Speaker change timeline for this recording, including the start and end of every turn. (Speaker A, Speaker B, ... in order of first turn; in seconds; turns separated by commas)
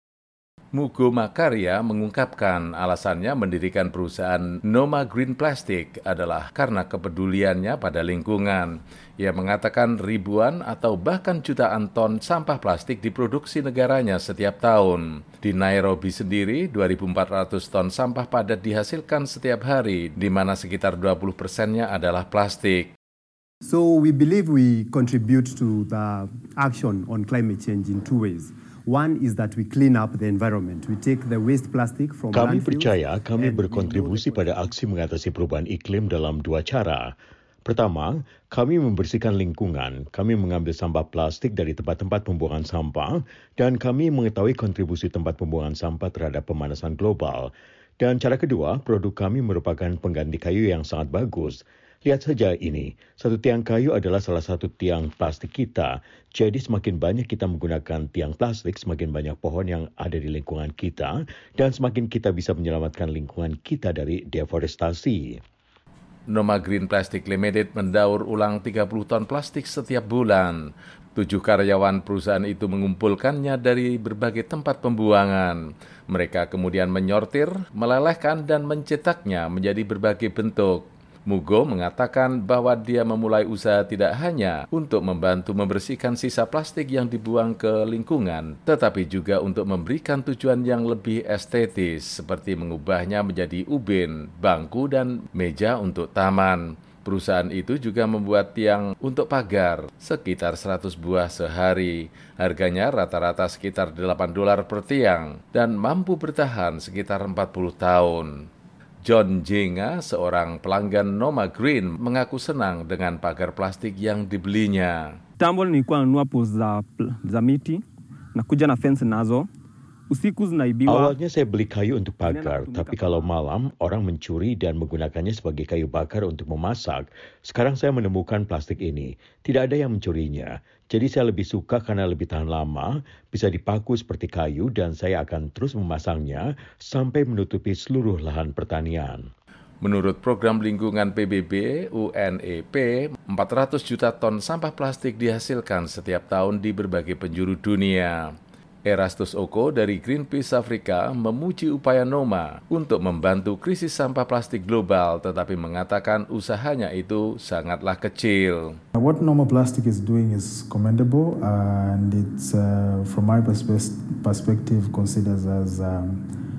Speaker A: 0.7-22.9, Speaker B: 23.6-34.8, Speaker C: 32.3-37.1, Speaker C: 37.6-65.4, Speaker A: 66.3-70.6, Speaker A: 71.1-108.4, Speaker A: 109.0-115.1, Speaker D: 115.4-117.8, Speaker D: 118.3-119.5, Speaker D: 120.1-121.1, Speaker C: 120.9-139.3, Speaker D: 122.2-123.3, Speaker A: 139.8-148.3, Speaker A: 148.8-158.8, Speaker E: 158.9-166.2